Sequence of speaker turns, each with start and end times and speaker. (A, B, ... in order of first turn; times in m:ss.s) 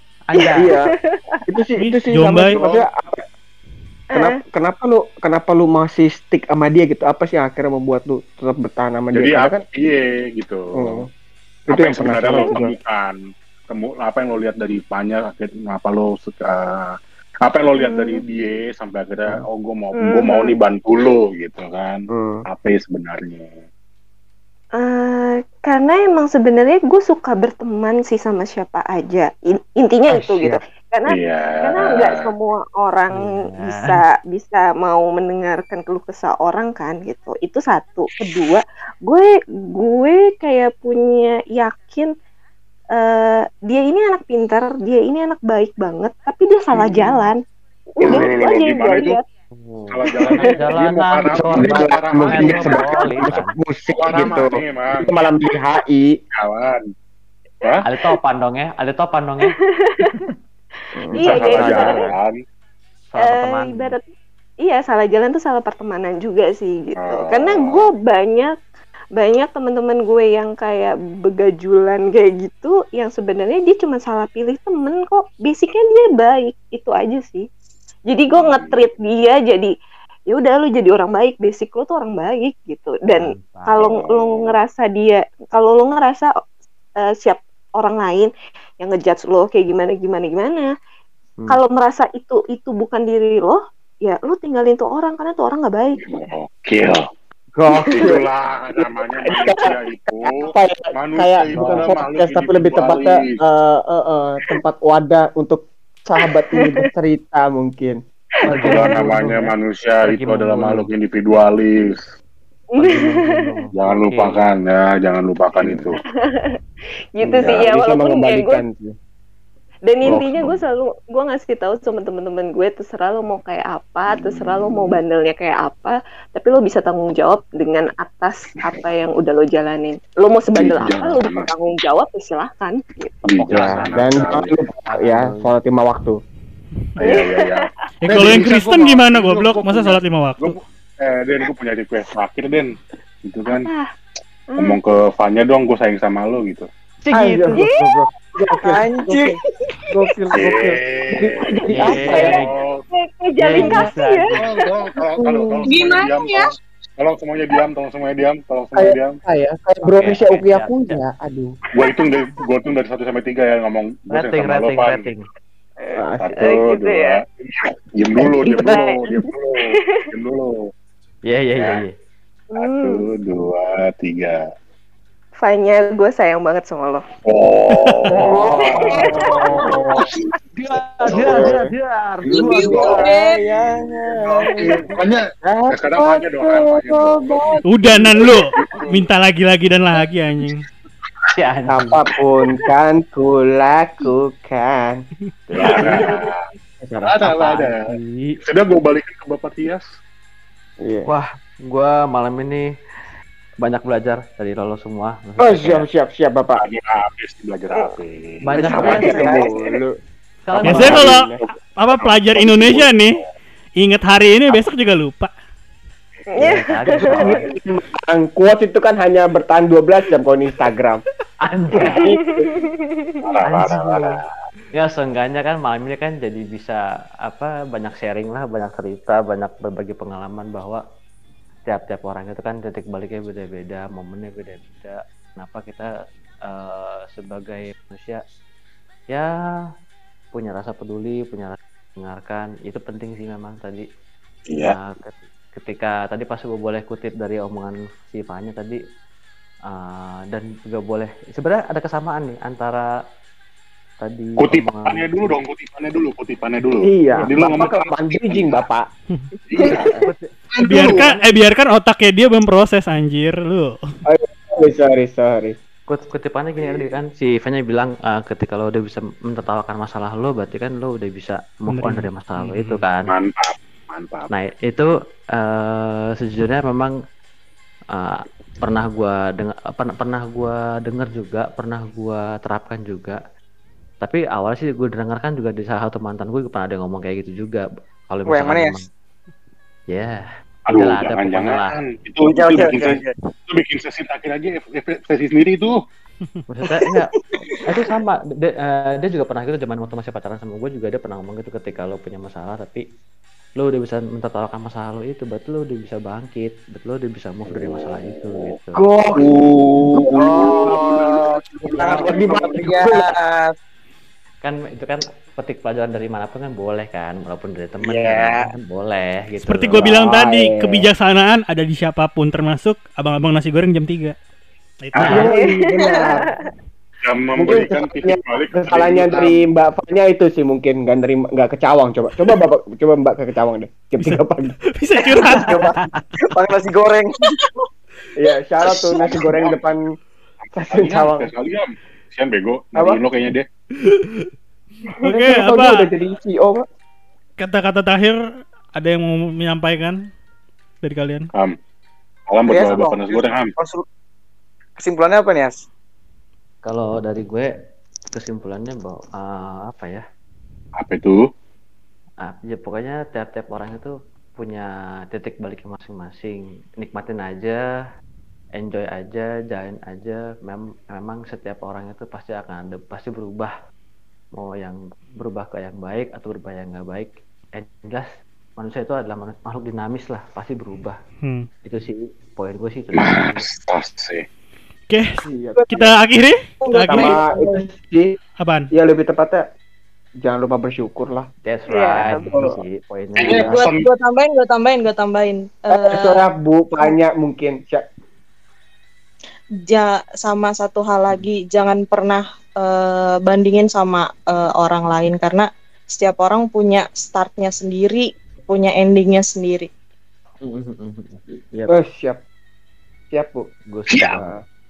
0:00.3-0:00.7 A
0:00.3-0:01.4 B
0:00.5-0:00.9 C
0:01.5-0:03.2 C
0:01.8-0:02.6 D
0:02.3-0:02.9 E
0:04.1-0:04.4 B
0:04.1-0:09.6 C
0:09.1-0:11.0 E
0:10.8-0:11.1 C
0:11.7-0:12.7 C
0:11.7-0:13.2 E
0:13.7-0:16.9 E
0:17.4-0:23.5 E
0:17.8-0:18.2 B
0:20.0-0:20.6 B
0:22.1-0:22.4 C
0:24.8-0:42.1 B
0:30.1-0:30.6 C
0:31.1-0:32.3 E
0:33.1-0:34.0 A
0:43.0-0:47.4 B
0:46.7-0:47.1 E
0:48.0-0:49.2 B
0:48.0-0:49.2 E
0:49.5-0:53.5 A
0:49.9-0:53.2 E
0:50.0-0:50.7 B
0:51.4-0:54.5 C
0:53.9-0:55.3 E
0:55.1-0:56.1 C
0:56.3-0:56.8 E
0:57.6-0:57.9 E
0:57.8-1:00.3 A
0:59.5-1:00.2 B
1:01.0-1:02.1 C
1:01.1-1:02.0 B
1:01.2-1:02.4 E
1:03.1-1:04.0 A
1:03.2-1:04.1 B
1:04.6-1:08.5 B
1:07.0-1:07.9 E
1:09.2-1:17.5 B
1:18.1-1:19.7 B
1:18.3-1:18.9 E
1:20.3-1:26.3 B
1:23.1-1:23.8 A
1:23.8-1:24.5 E
1:27.0-1:30.7 B
1:31.5-1:36.3 B
1:36.0-1:37.0 E
1:37.6-1:38.2 C
1:37.8-1:43.4 E
1:39.2-1:39.7 C
1:40.2-1:48.0 C
1:41.5-1:41.9 A
1:46.2-1:46.9 B
1:48.4-1:48.9 B
1:48.4-1:50.9 A
1:48.5-1:52.0 E
1:52.7-1:53.6 B
1:52.8-1:54.4 A
1:53.7-1:56.0 E
1:56.0-1:56.6 B
1:57.2-1:58.6 B
1:57.4-1:57.6 E
1:57.5-1:58.9 C
1:59.9-2:13.8 B
2:00.0-2:00.6 E
2:04.1-2:05.0 E
2:10.5-2:11.5 E
2:13.2-2:14.5 E
2:13.5-2:15.5 A
2:13.5-2:16.2 C
2:17.0-2:23.7 E
2:17.0-2:17.7 B
2:18.0-2:20.6 D
2:23.6-2:23.9 B
2:24.5-2:24.8 B
2:24.6-2:26.7 E
2:27.0-2:27.6 A
2:27.1-2:29.3 C
2:27.5-2:28.0 B
2:28.6-2:29.3 F
2:29.5-2:30.1 B
2:29.9-2:32.4 C
2:30.3-2:32.8 E
2:31.7-2:32.5 A
2:32.9-2:35.0 B
2:33.4-2:34.4 A
2:33.6-2:33.9 C
2:34.3-2:39.2 E
2:35.7-2:36.4 G
2:38.8-2:41.5 C
2:39.8-2:41.0 A
2:41.7-2:45.1 E
2:44.1-2:45.2 A
2:45.8-2:47.2 B
2:46.0-2:46.4 C
2:46.2-2:50.5 E
2:48.2-2:48.7 C
2:48.4-2:50.1 B
2:51.3-2:51.9 A
2:52.5-2:53.1 B
2:52.6-2:54.4 E
2:55.4-2:57.0 B
2:57.2-2:59.1 E
2:57.7-2:59.8 A
2:58.1-3:00.0 C
2:58.8-2:59.1 B
2:59.6-3:00.0 E
3:00.6-3:03.0 A
3:01.1-3:01.6 E
3:01.1-3:01.7 C
3:02.3-3:03.1 E
3:02.3-3:03.2 G
3:02.8-3:04.9 F
3:04.6-3:09.0 E
3:05.4-3:07.5 C
3:07.7-3:10.6 D
3:11.3-3:11.9 A
3:11.7-3:16.3 C
3:15.5-3:16.4 E
3:15.6-3:16.1 A
3:16.8-3:17.2 C
3:17.0-3:17.8 E
3:17.2-3:18.4 A
3:18.4-3:19.8 E
3:20.8-3:21.1 C
3:21.0-3:22.7 A
3:23.6-3:25.8 A
3:25.4-3:26.6 C
3:26.6-3:29.2 E
3:28.5-3:29.4 A
3:28.6-3:29.9 C
3:28.8-3:29.6 F
3:30.4-3:31.2 A
3:30.5-3:31.4 C
3:30.6-3:31.3 D
3:30.8-3:31.1 E
3:31.8-3:33.2 D
3:31.9-3:33.2 E
3:33.8-3:35.3 D
3:36.3-3:37.5 B
3:36.4-3:37.5 A
3:36.8-3:41.0 C
3:41.4-3:42.1 A
3:41.7-3:42.0 E
3:41.8-3:42.6 C
3:42.0-3:43.2 B
3:43.2-3:44.3 E
3:43.4-3:44.2 A
3:44.7-3:50.8 A
3:51.6-3:55.9 A
3:56.5-3:58.2 A
4:00.3-4:03.9 A
4:04.5-4:04.8 E
4:04.6-4:08.8 A
4:09.7-4:12.9 A
4:14.0-4:15.3 A
4:14.4-4:18.6 E
4:16.8-4:18.8 C
4:19.5-4:21.2 E
4:19.6-4:20.1 C
4:20.0-4:20.3 A
4:20.7-4:23.8 D
4:24.0-4:25.5 C
4:25.9-4:33.1 A
4:31.7-4:32.8 D
4:33.0-4:34.3 E
4:34.3-4:36.9 A
4:37.9-4:43.2 A
4:44.0-4:48.8 A
4:48.2-4:48.8 F
4:49.9-4:50.2 A
4:50.7-4:55.8 E
4:50.7-4:51.7 A
4:52.2-4:53.2 F
4:56.5-4:57.1 A
4:56.8-4:57.8 F
4:57.7-5:02.8 A
5:03.6-5:08.8 A
5:07.5-5:08.6 E
5:08.9-5:13.5 F
5:09.1-5:12.5 E
5:10.0-5:10.7 C
5:11.8-5:12.1 A
5:11.9-5:13.1 C
5:14.4-5:20.0 A
5:17.8-5:18.5 F
5:19.4-5:24.1 D
5:19.8-5:20.8 C
5:24.8-5:25.3 D
5:25.0-5:25.2 E
5:25.0-5:25.3 A
5:25.1-5:26.3 C
5:25.3-5:26.5 B
5:27.0-5:29.3 E
5:27.4-5:34.6 C
5:34.7-5:35.5 D
5:35.3-5:36.0 A
5:36.3-5:37.4 F
5:38.2-5:39.8 C
5:39.1-5:39.6 E
5:40.5-5:43.4 E
5:40.6-5:41.3 C
5:43.8-5:44.3 D
5:45.0-5:45.8 D
5:45.0-5:46.6 C
5:47.4-5:48.2 D
5:48.8-5:50.0 D
5:50.8-5:51.3 D
5:52.3-5:53.5 E
5:52.5-5:53.8 F
5:54.8-5:55.6 F
5:56.6-5:57.5 A
5:58.1-6:00.0 A
6:00.8-6:01.2 E
6:02.2-6:07.6 A
6:08.6-6:13.5 A
6:14.3-6:21.0 A
6:21.2-6:21.5 D
6:21.6-6:23.5 A
6:22.9-6:24.2 E
6:24.9-6:27.2 D
6:25.2-6:25.9 C
6:26.7-6:27.4 G
6:26.9-6:28.2 C
6:28.4-6:28.7 D
6:28.7-6:29.4 C
6:30.2-6:31.3 C
6:31.4-6:33.6 A
6:31.7-6:32.6 F
6:33.2-6:33.9 E
6:33.5-6:36.2 G
6:35.7-6:37.8 C
6:39.6-6:49.7 G
6:50.4-6:51.7 A
6:51.7-6:52.2 C
6:53.1-6:53.5 C
6:53.7-6:54.4 A
6:54.0-6:54.4 C